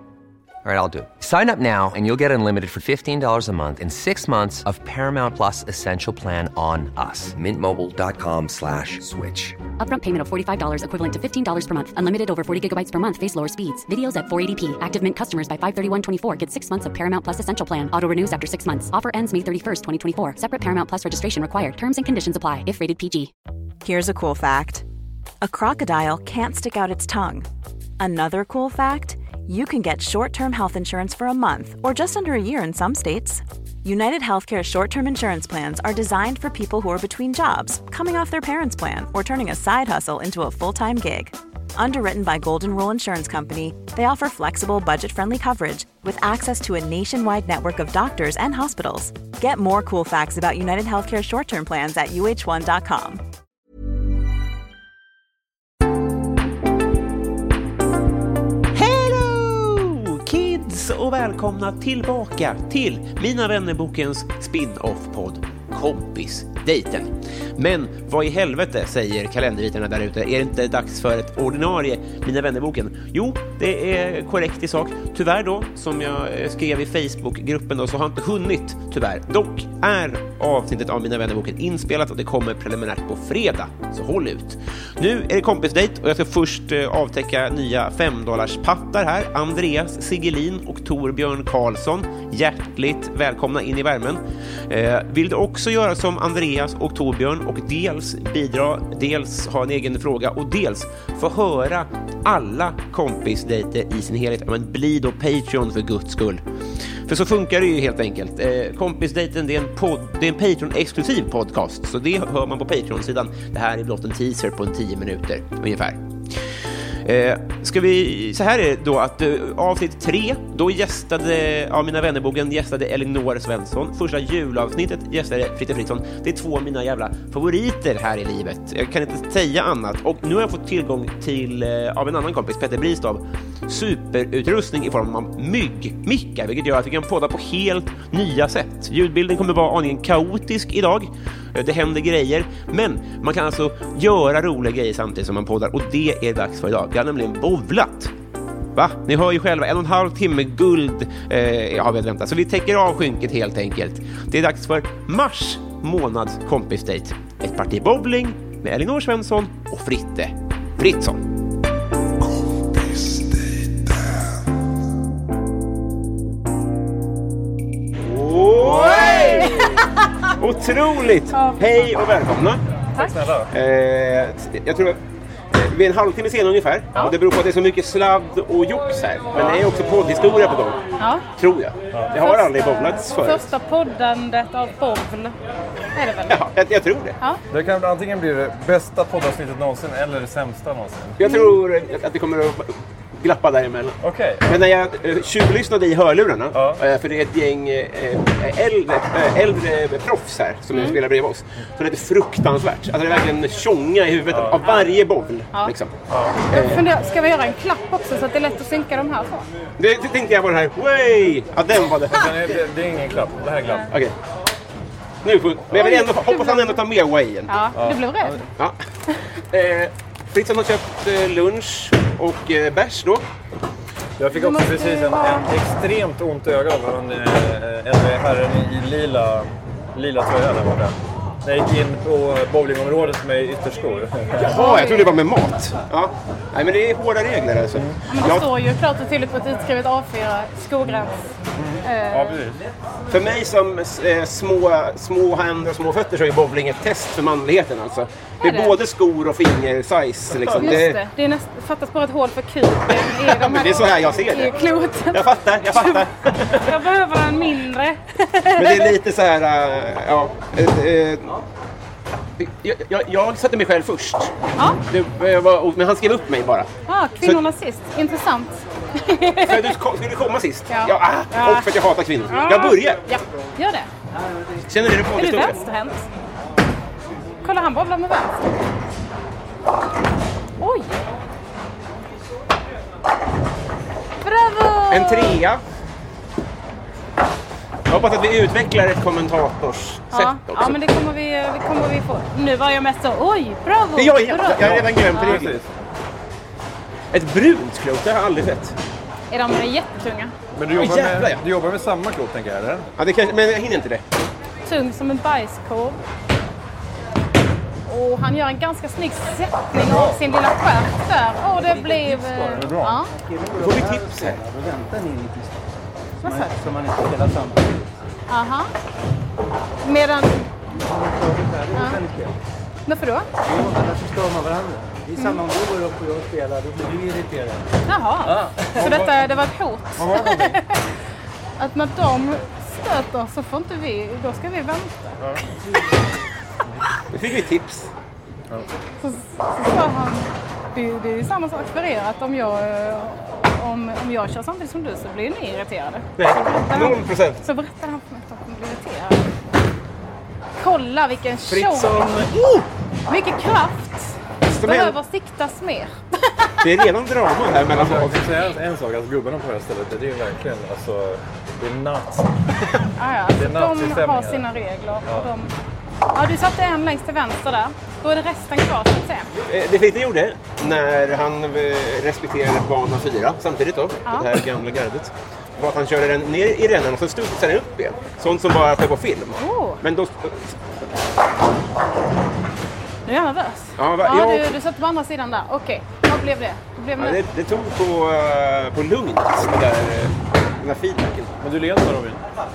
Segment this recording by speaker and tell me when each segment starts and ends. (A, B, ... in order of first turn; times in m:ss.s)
0:00.6-0:09.6 A
0:09.8-0:23.3 B
0:23.8-0:24.8 C
0:25.4-0:27.5 C
0:28.0-0:53.2 C
0:58.7-1:46.4 D
1:47.1-1:56.0 D
1:57.0-2:28.1 D
2:28.8-2:41.2 D
2:48.0-2:49.8 D
2:50.4-2:52.6 D
2:53.0-2:53.5 E
2:53.5-2:55.0 D
2:55.5-3:00.8 D
2:59.3-2:59.6 E
3:01.3-3:03.5 D
3:02.2-3:05.4 F
3:06.0-3:06.4 F
3:06.3-3:07.2 D
3:07.5-3:11.2 E
3:11.2-3:26.9 D
3:11.2-3:11.5 F
3:14.0-3:14.6 E
3:16.5-3:16.8 E
3:24.3-3:24.6 E
3:26.1-3:26.4 E
3:26.6-3:29.4 F
3:29.8-3:32.5 D
3:32.1-3:33.9 E
3:35.2-3:37.6 D
3:35.8-3:36.8 F
3:37.5-3:38.3 F
3:37.7-3:38.5 E
3:39.5-3:43.3 D
3:44.2-3:54.6 E
3:44.4-3:45.5 F
3:54.4-3:58.5 D
3:54.6-3:55.2 F
3:57.8-3:58.0 E
3:58.1-4:01.3 F
4:00.8-4:02.6 E
4:01.8-4:02.4 F
4:03.1-4:11.0 D
4:08.4-4:08.7 F
4:10.6-4:15.2 F
4:13.0-4:14.6 D
4:15.1-4:16.9 D
4:16.8-4:18.7 F
4:18.6-4:21.4 D
4:22.4-4:26.7 D
4:26.9-4:29.6 F
4:29.4-4:33.0 D
4:30.7-4:31.6 F
4:32.3-4:33.9 F
4:34.7-4:35.6 D
4:35.2-4:36.1 F
4:37.4-4:38.4 F
4:40.6-4:41.0 F
4:44.2-4:45.4 F
4:44.9-4:45.6 D
4:47.9-4:50.9 D
4:50.1-4:54.6 F
4:53.9-4:55.6 D
4:54.5-4:55.7 E
4:57.1-4:58.8 D
4:59.3-5:00.3 F
5:00.6-5:02.9 E
5:00.7-5:01.4 D
5:03.0-5:04.0 D
5:04.7-5:06.0 F
5:07.9-5:13.1 F
5:09.8-5:10.4 E
5:11.9-5:12.4 G
5:12.5-5:13.0 E
5:13.6-5:14.4 D
5:14.5-5:15.3 G
5:16.3-5:17.6 G
5:16.3-5:16.5 F
5:18.3-5:18.7 F
5:19.8-5:20.5 F
5:21.5-5:22.3 G
5:21.8-5:22.0 F
5:22.9-5:23.3 F
5:23.8-5:27.5 G
5:27.9-5:30.8 F
5:28.2-5:30.6 E
5:31.6-5:35.2 F
5:37.1-5:37.9 D
5:39.0-5:49.3 F
5:46.2-5:47.4 D
5:50.6-5:51.9 F
5:51.5-5:52.7 D
5:53.1-5:54.2 F
5:54.5-5:55.0 D
5:54.9-5:56.6 F
5:56.6-5:58.4 D
5:57.7-6:02.3 E
6:03.0-6:05.6 F
6:03.3-6:04.5 E
6:05.0-6:05.3 E
6:06.2-6:09.3 F
6:09.5-6:20.7 D
6:19.4-6:19.8 F
6:23.1-6:27.1 F
6:23.8-6:24.6 D
6:27.0-6:31.3 D
6:31.4-6:32.2 E